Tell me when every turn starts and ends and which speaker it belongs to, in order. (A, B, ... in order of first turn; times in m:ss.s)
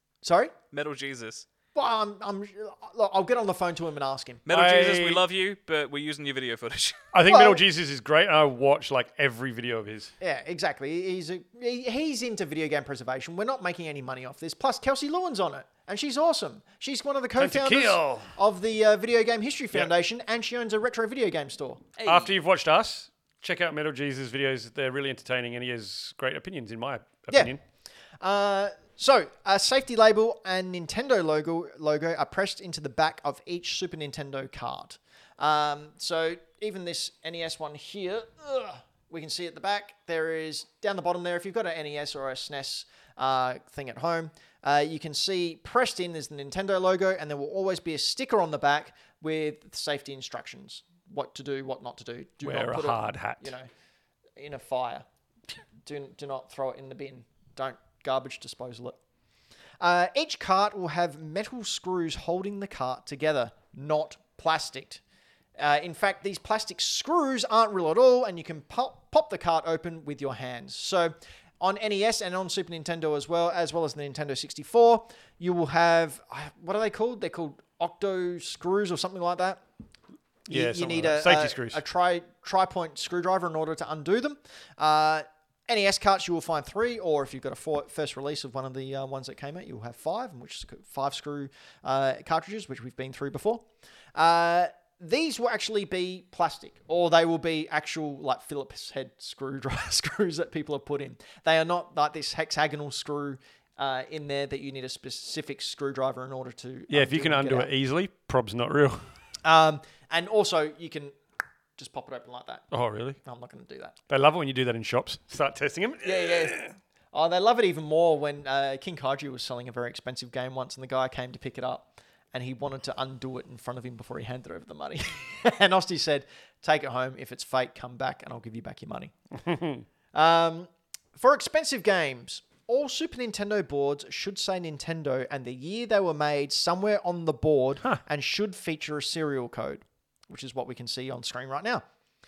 0:00.2-0:00.5 A
0:00.7-0:01.5 B
0:01.8-0:04.4 A
0:04.5-0:07.1 B
0:04.5-0:05.3 C
0:07.1-0:10.1 C
0:07.2-0:07.6 A
0:10.2-0:21.8 A
0:17.4-0:18.4 C
0:22.0-0:22.4 B
0:22.0-0:27.6 C
0:27.3-0:27.6 A
0:28.2-0:53.7 A
0:52.4-0:53.5 C
0:54.4-0:55.1 A
0:55.8-0:59.0 A
0:59.8-1:05.0 A
1:05.6-1:19.6 A
1:20.5-1:47.7 A
1:20.5-1:21.8 C
1:46.9-1:49.1 C
1:49.4-1:51.2 A
1:51.8-1:52.6 A
1:52.7-1:53.2 C
1:53.2-1:54.0 A
1:54.1-1:56.7 C
1:56.0-2:09.1 A
2:09.4-2:09.8 C
2:10.1-2:21.8 A